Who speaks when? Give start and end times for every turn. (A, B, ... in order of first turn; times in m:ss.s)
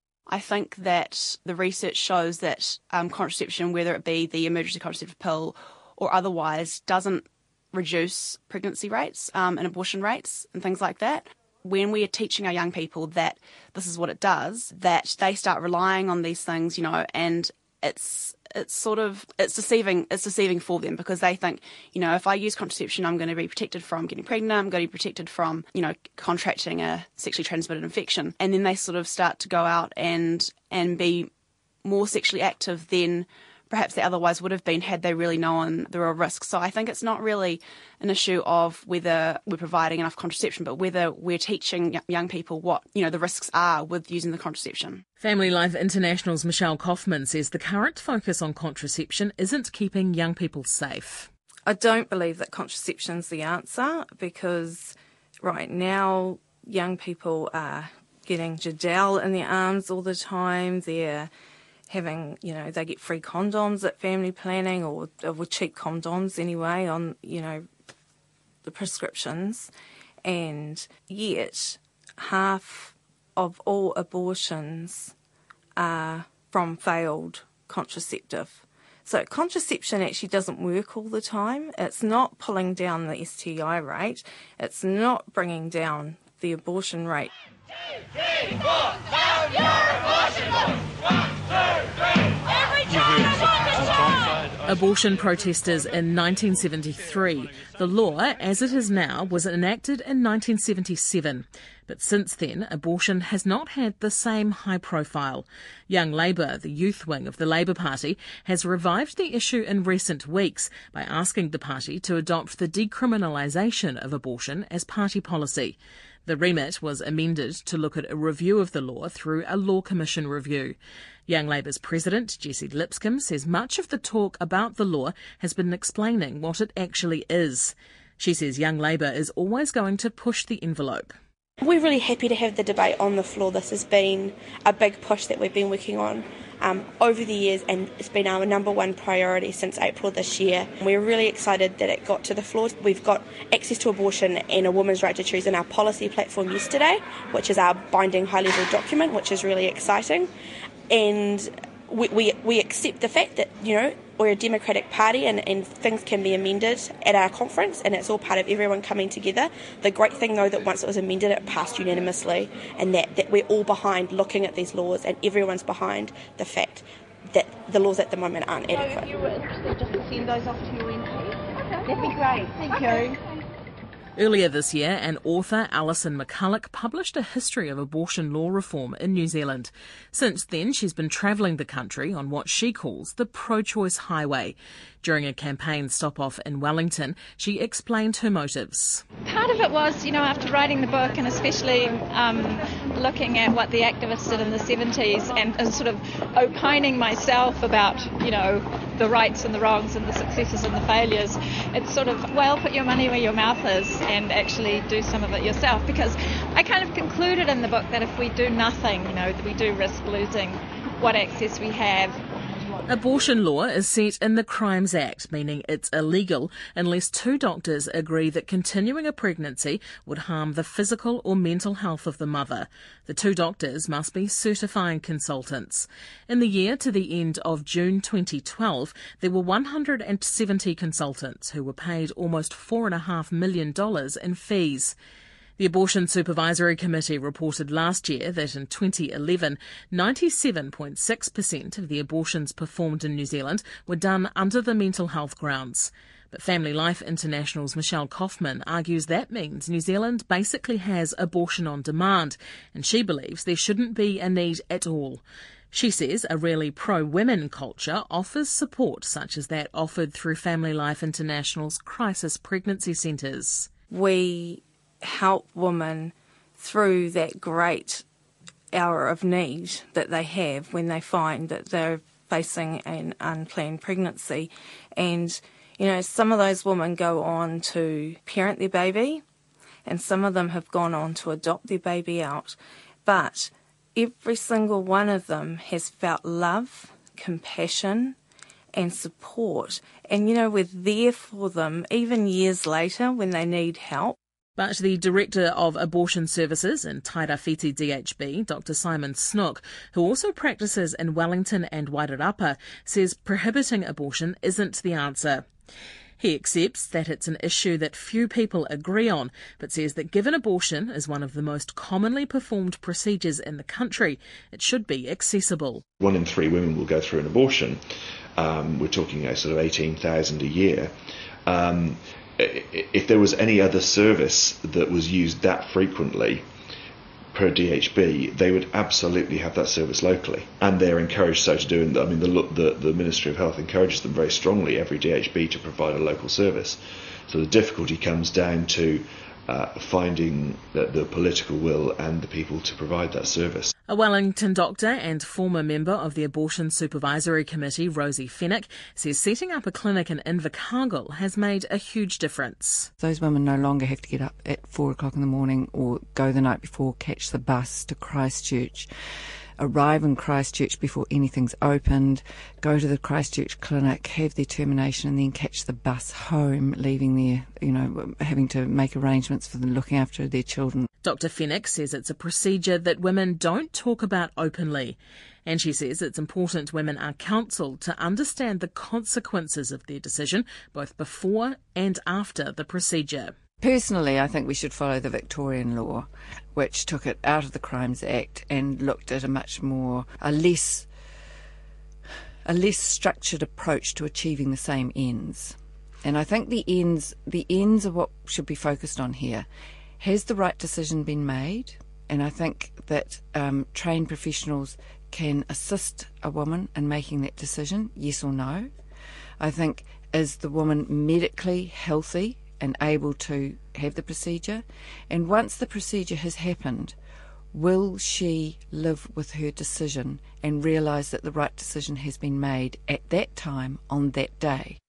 0:00.3-0:31.3 A
0:31.8-0:45.0 A
0:45.2-0:51.3 B
0:51.7-1:01.3 C
1:01.9-1:07.6 C
1:08.6-1:09.7 C
1:10.2-1:15.1 C
1:15.8-1:27.3 C
1:32.9-1:33.9 B
1:34.6-2:00.8 B
2:01.3-2:11.1 B
2:11.6-2:30.3 D
2:30.9-2:48.8 D
2:49.0-2:51.1 E
2:51.9-2:53.2 E
2:54.2-3:09.0 B
3:09.2-3:32.2 F
3:32.9-3:54.9 B
3:55.6-4:23.7 B
4:23.9-4:28.0 C
4:28.7-4:39.2 C
4:39.8-4:48.2 C
4:48.7-4:54.2 C
4:54.6-5:05.5 B
5:06.2-5:15.8 B
5:16.0-5:17.8 G
5:18.4-5:20.9 G
5:21.4-5:26.4 G
5:27.3-5:43.7 G
5:43.9-5:52.9 B
5:53.0-5:58.9 H
5:59.6-6:10.9 H
6:11.0-6:23.3 B
6:23.6-6:30.9 H
6:32.4-6:39.5 H
6:40.0-6:48.7 H
6:49.4-6:57.0 H
6:57.5-7:04.8 H